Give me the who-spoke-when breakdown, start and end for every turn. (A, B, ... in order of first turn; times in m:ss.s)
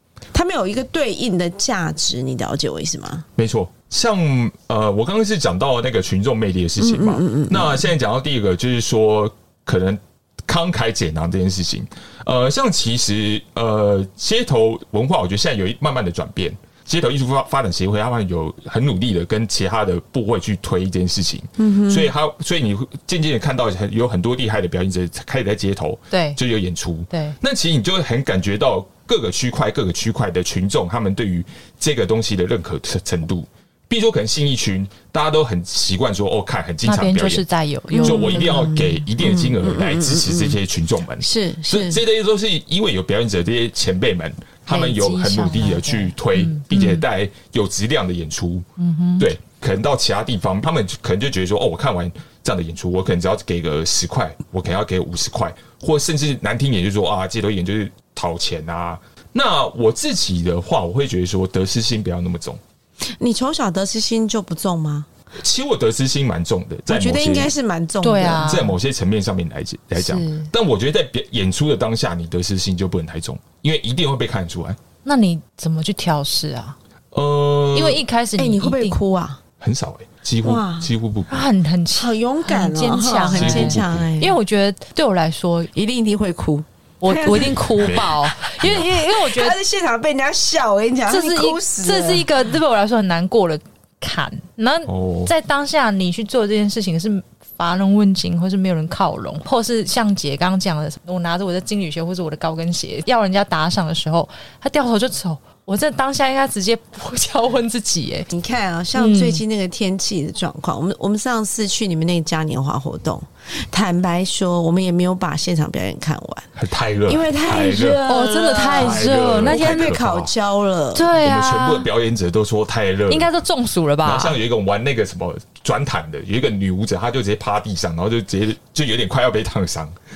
0:00.3-0:03.3 A
0:03.4-0:37.4 B
0:06.8-0:07.8 A
0:21.6-0:22.1 A
0:26.1-0:26.4 C
0:27.1-0:27.4 C
0:36.8-0:39.0 C
0:37.9-0:38.6 A
0:38.0-0:48.6 B
0:39.2-0:40.6 A
0:41.2-0:42.0 A
0:44.7-0:47.0 C
0:48.8-0:49.3 C
0:49.2-1:02.6 B
1:03.2-1:05.1 A
1:05.4-1:07.5 B
1:06.9-1:08.6 A
1:08.0-1:08.8 C
1:08.4-1:14.8 B
1:10.0-1:10.5 C
1:15.0-1:16.8 C
1:17.1-1:18.0 B
1:17.7-1:19.0 C
1:18.4-1:19.4 A
1:19.6-1:21.5 B
1:20.4-1:20.9 A
1:21.3-1:25.7 C
1:21.9-1:24.4 A
1:23.3-1:24.1 B
1:25.7-1:32.3 A
1:27.0-1:29.6 C
1:27.6-1:28.9 B
1:31.1-1:48.3 C
1:34.9-1:35.3 B
1:48.3-1:56.5 A
1:49.0-1:49.4 C
1:56.6-1:58.0 B
1:57.1-2:01.1 A
1:58.0-2:00.0 C
1:58.7-2:00.3 B
2:00.9-2:01.9 C
2:01.1-2:03.3 B
2:03.1-2:04.4 C
2:04.0-2:10.0 B